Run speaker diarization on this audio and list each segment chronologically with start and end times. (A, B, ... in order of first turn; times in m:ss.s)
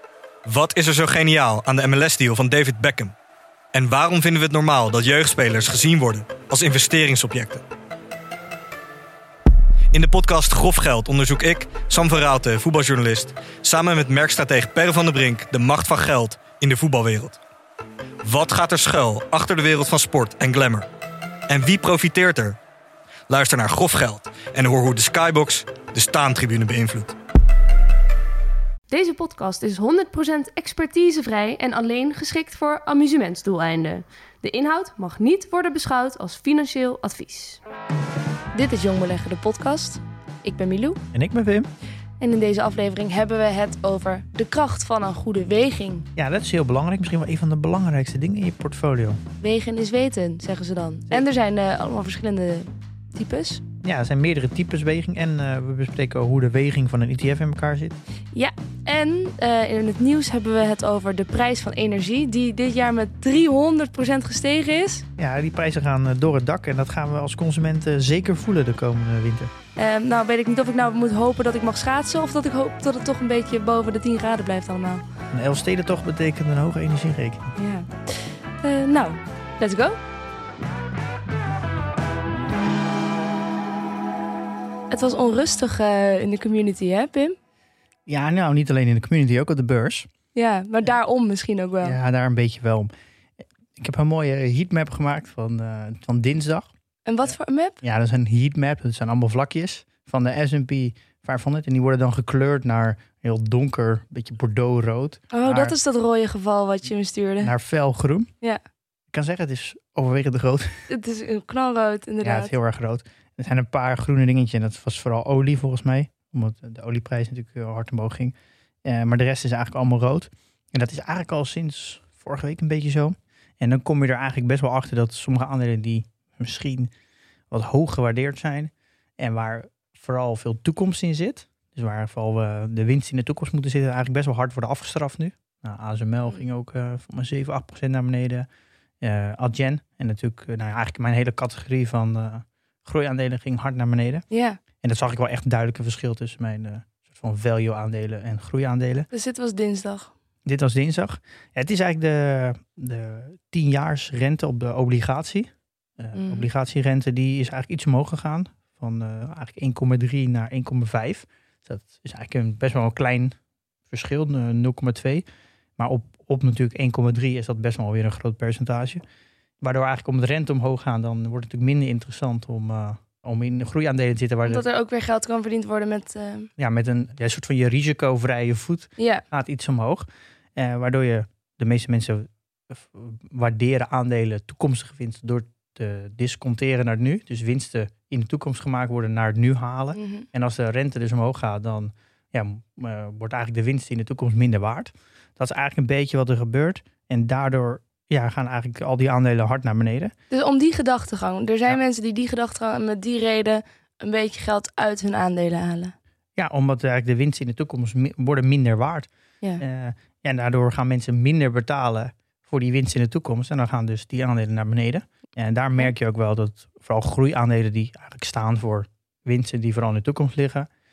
0:00.4-0:03.1 A
0:03.7-0:07.6 A
0:09.9-0:17.4 A
0:18.2-0:20.9 A
0:21.5-0:22.6 A
0:23.3-0:27.1 A
0:28.9-0:37.6 B
0:38.5-0:41.0 B
0:41.1-0:41.7 C
0:42.2-0:46.1 B
0:46.2-0:49.2 C
0:49.4-0:53.6 B
0:53.8-0:58.0 C
0:58.3-1:05.0 B
1:05.2-1:09.5 C
1:09.8-1:15.0 B
1:15.3-1:17.5 C
1:17.6-1:20.0 B
1:24.9-1:27.4 B
1:28.1-1:30.1 C
1:30.3-1:32.0 B
1:31.8-1:32.9 C
1:33.8-1:36.7 C
1:37.1-1:37.8 B
1:37.8-1:45.8 C
1:45.3-1:47.5 B
1:47.4-1:48.3 C
1:49.1-1:50.9 C
1:50.9-1:52.5 B
1:52.2-2:06.9 C
2:07.5-2:18.5 C
2:19.0-2:24.2 C
2:24.3-2:24.6 B
2:24.8-2:29.1 C
2:29.1-2:30.1 B
2:30.4-2:43.4 C
2:36.1-2:36.5 B
2:43.9-2:45.2 C
2:45.8-2:49.0 C
2:49.6-2:54.6 C
2:54.5-2:56.5 B
2:56.6-3:20.1 C
2:59.0-2:59.2 B
3:10.0-3:10.2 B
3:20.3-3:26.0 B
3:26.4-3:29.1 C
3:29.6-3:40.7 C